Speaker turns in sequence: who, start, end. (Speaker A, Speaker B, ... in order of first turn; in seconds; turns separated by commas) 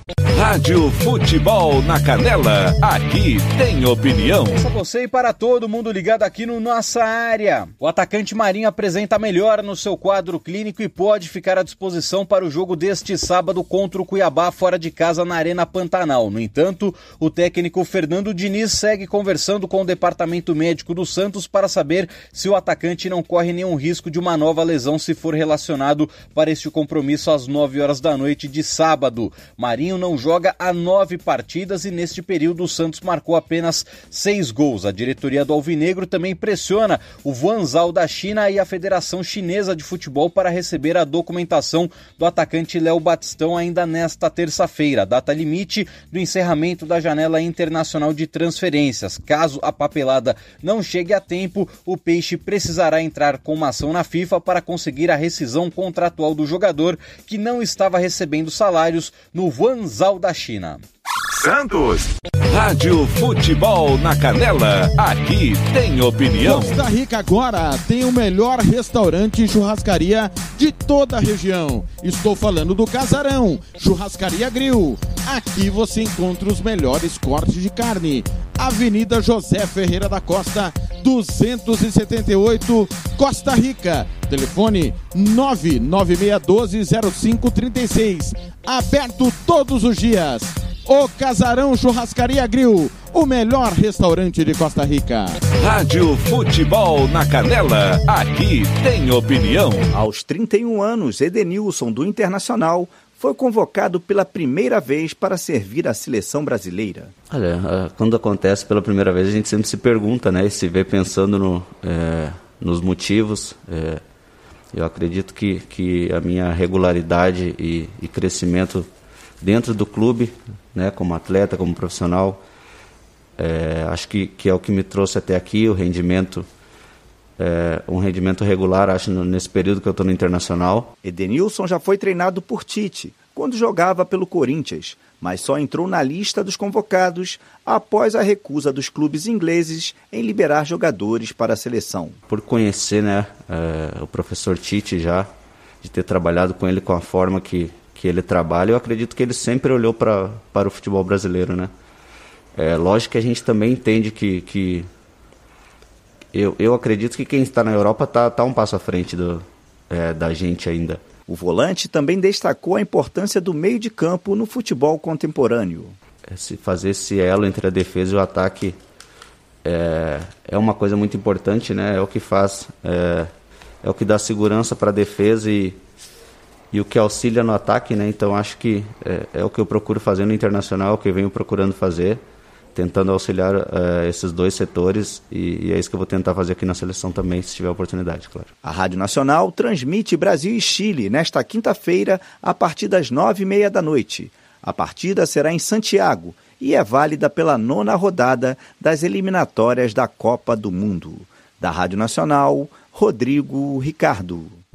Speaker A: 0.3-4.6, Speaker B: 4.6-60.8, Speaker A: 62.5-66.8, Speaker C: 66.4-95.4, Speaker A: 95.6-99.9, Speaker D: 99.9-107.1, Speaker E: 107.3-114.0, Speaker E: 114.7-118.9, Speaker E: 119.4-122.4, Speaker E: 123.4-126.5, Speaker E: 127.4-130.9, Speaker D: 131.0-142.2, Speaker E: 142.3-145.3, Speaker E: 145.8-151.7, Speaker E: 152.6-154.9, Speaker E: 156.3-161.1, Speaker D: 161.3-166.0, Speaker E: 166.3-168.8, Speaker E: 169.6-173.3, Speaker E: 173.8-175.8, Speaker E: 176.7-182.2, Speaker E: 182.7-188.5, Speaker D: 188.6-204.6